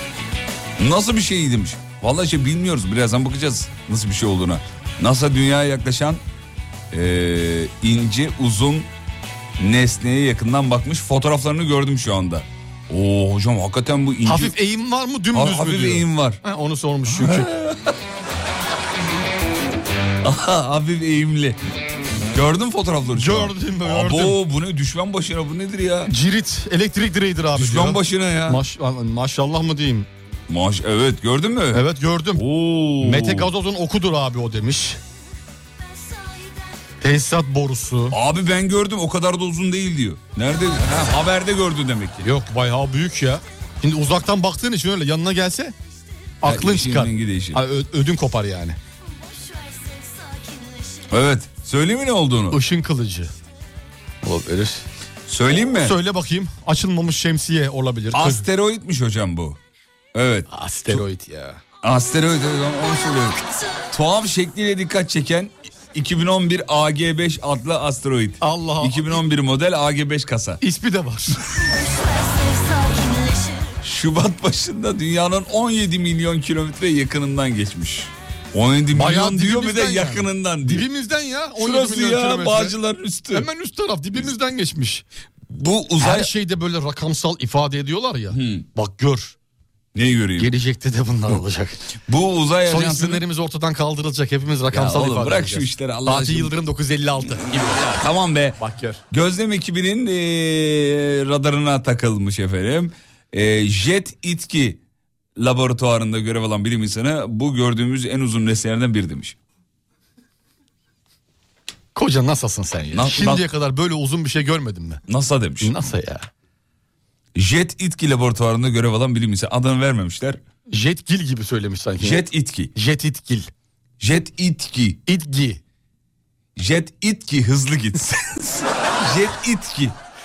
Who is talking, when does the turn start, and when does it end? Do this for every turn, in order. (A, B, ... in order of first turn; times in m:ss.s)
0:00.8-0:06.2 A
0:06.9-0:08.9 A
0:09.6-0:14.5 A
0:14.2-0:17.5 B
0:15.3-0:16.4 A
0:17.1-0:18.0 A
0:20.2-0:21.6 A
0:22.3-0:26.1 A
0:23.1-0:24.4 B
0:26.1-0:30.1 B
0:27.5-0:28.6 A
0:30.5-0:33.5 A
0:31.7-0:32.4 B
0:33.0-0:35.0 B
0:37.0-0:38.2 B
0:38.1-0:42.3 A
0:42.2-0:45.7 B
0:46.4-0:48.8 B
0:46.4-0:47.6 A
0:49.1-0:51.1 C
0:51.1-0:52.6 A
0:52.5-0:53.3 B
0:54.2-0:54.8 B
0:55.3-0:56.0 A
0:55.8-0:58.4 B
0:58.1-0:59.6 A
1:00.1-1:01.0 A
1:00.5-1:01.6 B
1:01.8-1:10.6 A
1:08.4-1:09.2 B
1:10.6-1:11.4 B
1:11.5-1:13.8 C
1:13.8-1:20.9 A
1:18.9-1:22.7 B
1:21.6-1:23.5 A
1:23.3-1:25.0 B
1:25.5-1:26.3 A
1:26.0-1:29.4 B
1:28.3-1:28.7 A
1:29.9-1:30.5 A
1:30.4-1:31.9 B
1:32.1-1:33.2 A
1:32.6-1:37.8 B
1:34.7-1:36.5 A
1:37.2-1:38.6 A
1:38.6-1:39.0 B
1:39.1-1:44.8 A
1:45.4-1:49.4 A
1:51.9-1:55.0 B
1:52.9-1:53.4 A
1:55.1-1:55.7 A
1:55.6-1:56.3 B
1:57.3-2:00.4 A
2:00.7-2:03.5 B
2:02.0-2:02.7 A
2:04.0-2:05.0 A
2:05.0-2:05.6 B
2:06.6-2:10.0 A